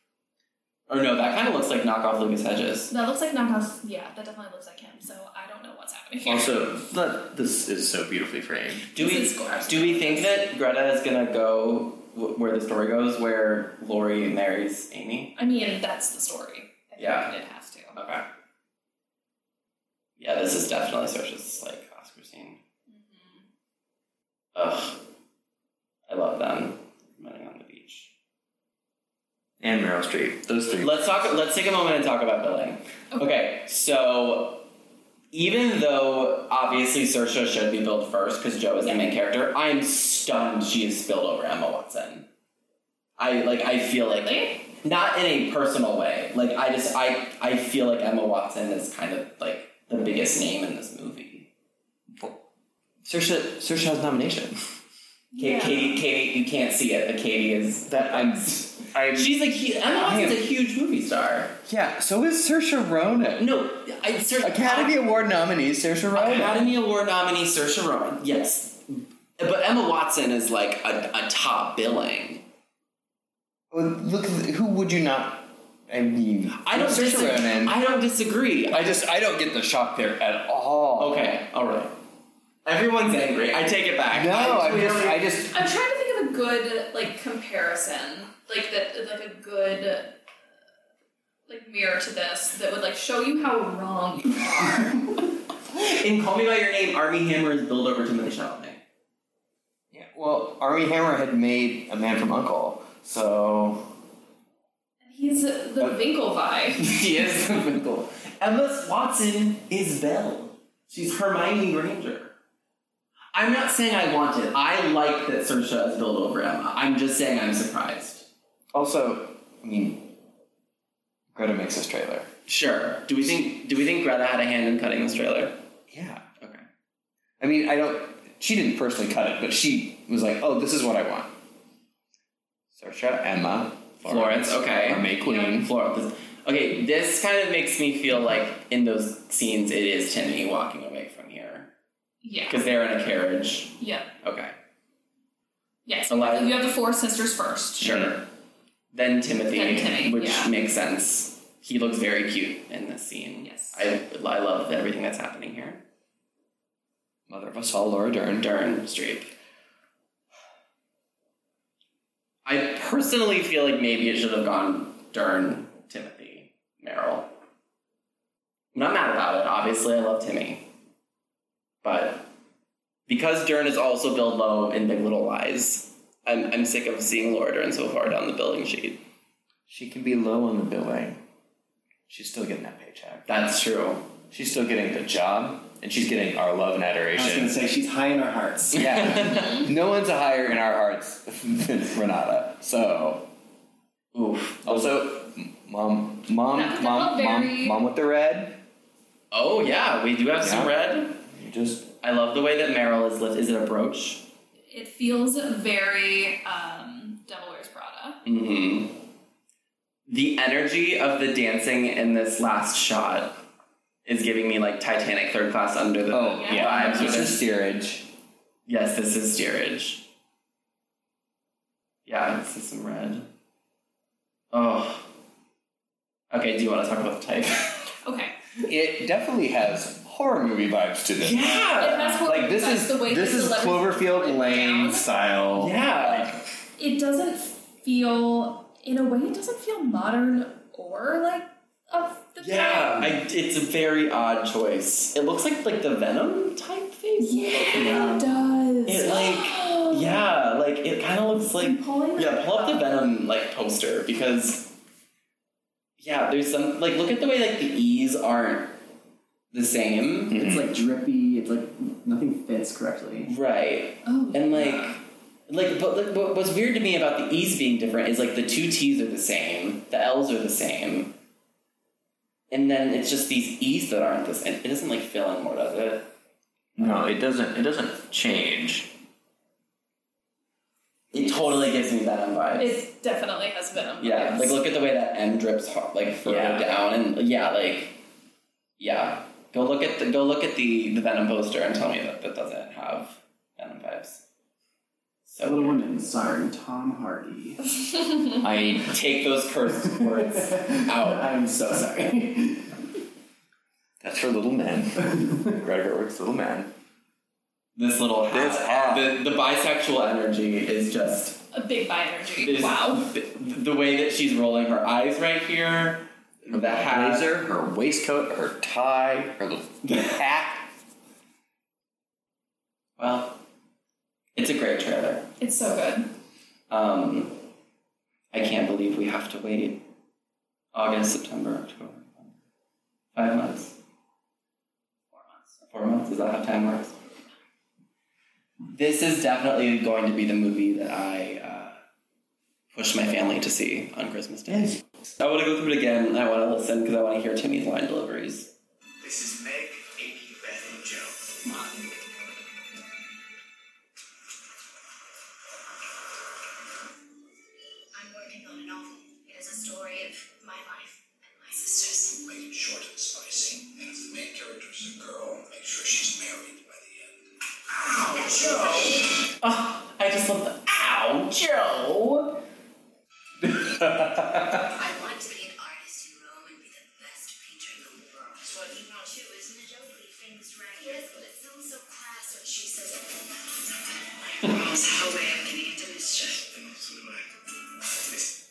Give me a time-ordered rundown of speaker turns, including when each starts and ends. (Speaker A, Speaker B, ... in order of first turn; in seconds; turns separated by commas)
Speaker A: 0.9-2.9, Speaker B: 2.9-6.7, Speaker C: 6.2-8.8, Speaker A: 8.9-15.3, Speaker B: 8.9-10.4, Speaker B: 15.3-18.0, Speaker A: 17.0-17.3, Speaker A: 17.9-18.2, Speaker A: 20.2-22.6, Speaker B: 22.9-23.5, Speaker A: 24.5-25.0, Speaker A: 26.1-28.1, Speaker C: 29.6-31.0, Speaker A: 30.8-34.6, Speaker A: 35.3-42.2, Speaker A: 43.2-51.5, Speaker B: 44.0-44.6, Speaker C: 52.1-52.4, Speaker C: 53.0-54.5, Speaker B: 55.3-55.9, Speaker A: 55.4-61.5, Speaker C: 57.9-60.4, Speaker C: 61.7-63.6, Speaker A: 63.4-65.0, Speaker C: 64.4-66.7, Speaker A: 66.1-72.4, Speaker C: 73.7-77.8, Speaker A: 76.5-79.0, Speaker C: 78.7-81.3, Speaker A: 81.0-82.0, Speaker A: 82.7-85.2, Speaker C: 84.1-85.6, Speaker B: 85.5-90.2, Speaker B: 91.5-95.1, Speaker A: 95.7-98.8, Speaker C: 99.9-104.0, Speaker B: 105.0-106.9, Speaker A: 106.8-112.3, Speaker A: 113.3-118.3, Speaker C: 118.7-120.1, Speaker C: 121.3-122.3, Speaker A: 122.5-125.6, Speaker C: 125.9-126.2, Speaker C: 127.4-131.3, Speaker C: 132.7-135.7, Speaker A: 134.0-141.7, Speaker B: 135.2-135.5, Speaker B: 142.2-142.6, Speaker A: 142.5-144.5, Speaker B: 143.8-144.1, Speaker B: 145.8-148.1, Speaker A: 146.1-146.7, Speaker A: 147.8-148.2, Speaker C: 147.9-148.1, Speaker A: 148.9-155.8, Speaker B: 149.5-150.5, Speaker B: 153.4-153.8, Speaker C: 157.3-158.5, Speaker A: 158.4-159.3, Speaker A: 162.4-167.3, Speaker A: 168.7-170.6, Speaker A: 171.8-172.3, Speaker A: 173.1-179.0, Speaker C: 179.7-181.2, Speaker C: 182.1-183.3, Speaker A: 183.3-184.1, Speaker C: 184.3-187.6, Speaker D: 187.1-189.3, Speaker C: 188.7-193.3, Speaker A: 188.9-189.5, Speaker A: 194.1-195.1, Speaker C: 194.6-198.6, Speaker B: 196.5-197.8, Speaker A: 199.3-201.2, Speaker C: 200.4-200.7, Speaker C: 201.3-201.9, Speaker A: 202.0-204.2, Speaker B: 204.7-208.2, Speaker A: 208.2-209.0, Speaker A: 210.1-213.4, Speaker A: 214.0-217.4, Speaker C: 216.1-218.1, Speaker B: 216.3-217.3, Speaker A: 218.7-220.0, Speaker A: 222.1-223.3, Speaker A: 224.5-225.1, Speaker A: 226.3-227.8, Speaker B: 228.0-228.3, Speaker C: 228.7-236.4, Speaker A: 231.2-232.2, Speaker B: 231.8-235.1, Speaker A: 235.6-236.4, Speaker B: 236.8-243.1, Speaker A: 242.4-248.2, Speaker B: 247.2-250.2, Speaker A: 248.8-254.7, Speaker B: 251.6-253.0, Speaker A: 256.0-258.8, Speaker A: 259.5-260.5, Speaker C: 260.3-260.6, Speaker D: 260.4-263.3, Speaker A: 263.3-271.1, Speaker B: 264.0-265.0, Speaker A: 272.5-276.1, Speaker C: 276.8-278.9, Speaker C: 281.1-281.5, Speaker A: 281.1-282.8, Speaker B: 282.6-284.6, Speaker A: 284.0-287.9, Speaker C: 286.2-286.7, Speaker A: 288.8-294.2, Speaker A: 295.2-295.8, Speaker D: 295.4-297.6, Speaker C: 298.4-299.0, Speaker A: 298.9-301.4, Speaker D: 299.8-302.8, Speaker C: 304.0-306.7, Speaker A: 307.8-311.4, Speaker C: 308.3-309.2, Speaker B: 311.5-313.1, Speaker A: 312.3-317.3, Speaker C: 316.5-320.7, Speaker A: 319.9-320.1, Speaker A: 323.0-323.4, Speaker A: 324.3-325.3, Speaker B: 325.4-326.1, Speaker A: 326.7-327.4, Speaker A: 328.3-329.8, Speaker A: 330.7-332.3, Speaker A: 333.1-333.8, Speaker B: 335.1-335.6, Speaker A: 335.7-337.0, Speaker A: 338.7-341.8, Speaker A: 342.7-348.5, Speaker C: 344.5-344.7, Speaker E: 349.0-351.3, Speaker F: 357.9-362.2, Speaker E: 362.2-368.9, Speaker F: 368.1-368.9, Speaker A: 368.2-372.4, Speaker A: 373.6-374.6, Speaker F: 374.7-386.4, Speaker E: 386.3-387.3